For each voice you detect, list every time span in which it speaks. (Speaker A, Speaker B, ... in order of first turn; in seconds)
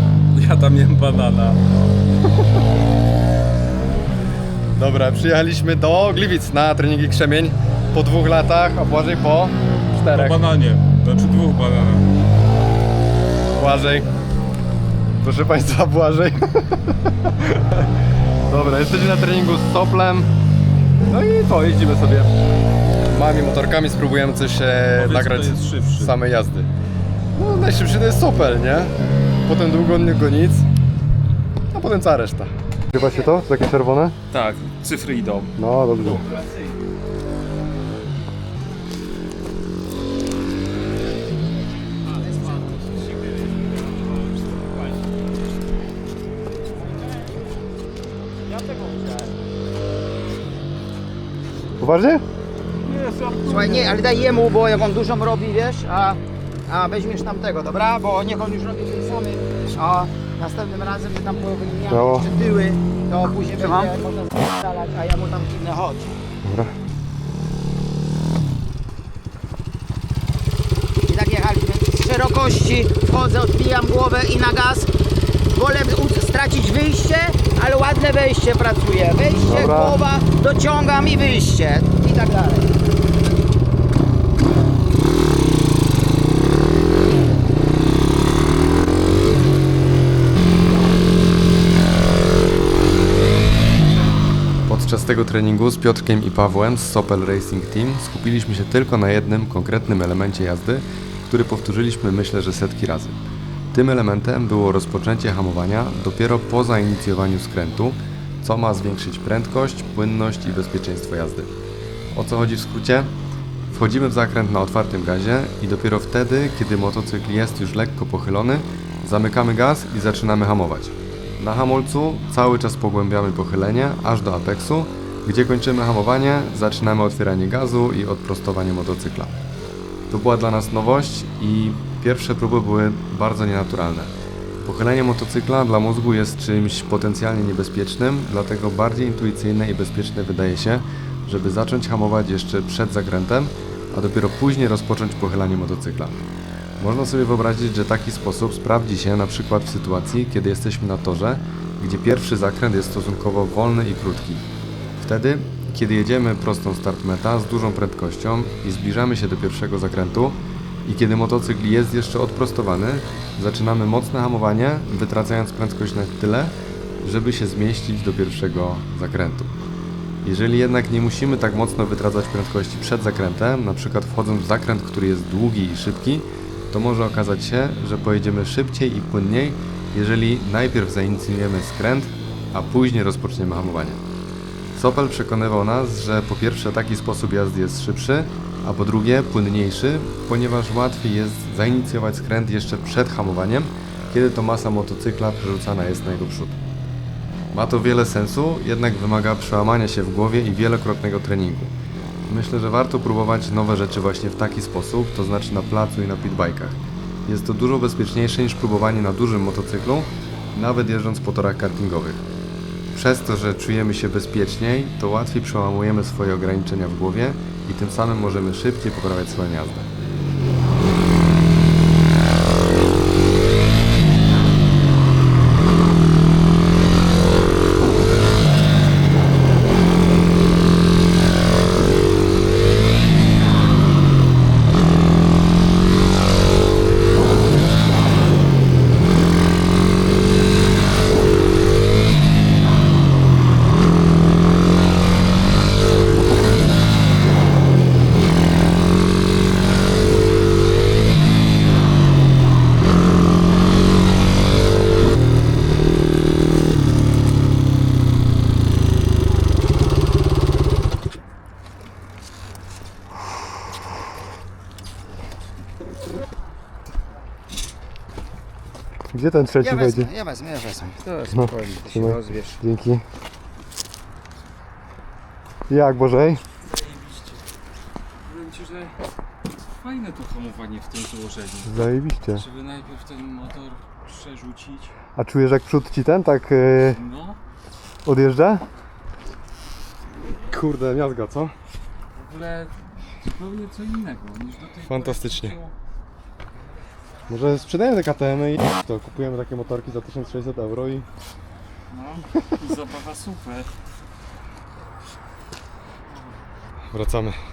Speaker A: 0.3-1.6, 10.1-12.1, 24.9-26.1, 34.3-35.5, 42.3-42.6, 43.3-44.3, 48.6-48.9, 52.8-53.9, 271.1-272.2, 276.7-277.4, 278.2-279.0, 279.8-281.7, 282.3-284.9, 286.9-287.4, 292.1-295.7, 301.9-303.7
Speaker B: 4.7-10.4, 13.5-14.1, 15.2-17.9, 18.5-20.3, 21.0-22.3, 23.1-26.7, 27.3-30.7, 31.7-34.1, 35.5-36.2, 51.8-52.2, 61.9-62.3, 66.4-66.7, 79.4-80.0, 94.7-103.2, 103.7-111.5, 112.1-113.1, 113.7-129.3, 130.1-146.2, 146.8-169.5, 170.2-184.0, 184.7-196.6, 197.5-201.7, 202.3-212.2, 212.9-219.9, 269.1-270.1, 271.3-273.0, 275.7-276.4, 281.6-282.4, 285.1-287.0, 288.0-288.6, 290.4-291.5, 294.8-295.6, 297.3-301.1, 306.9-307.4
Speaker C: 53.4-66.2, 71.1-74.9, 75.5-82.7, 269.6-271.3, 272.0-272.4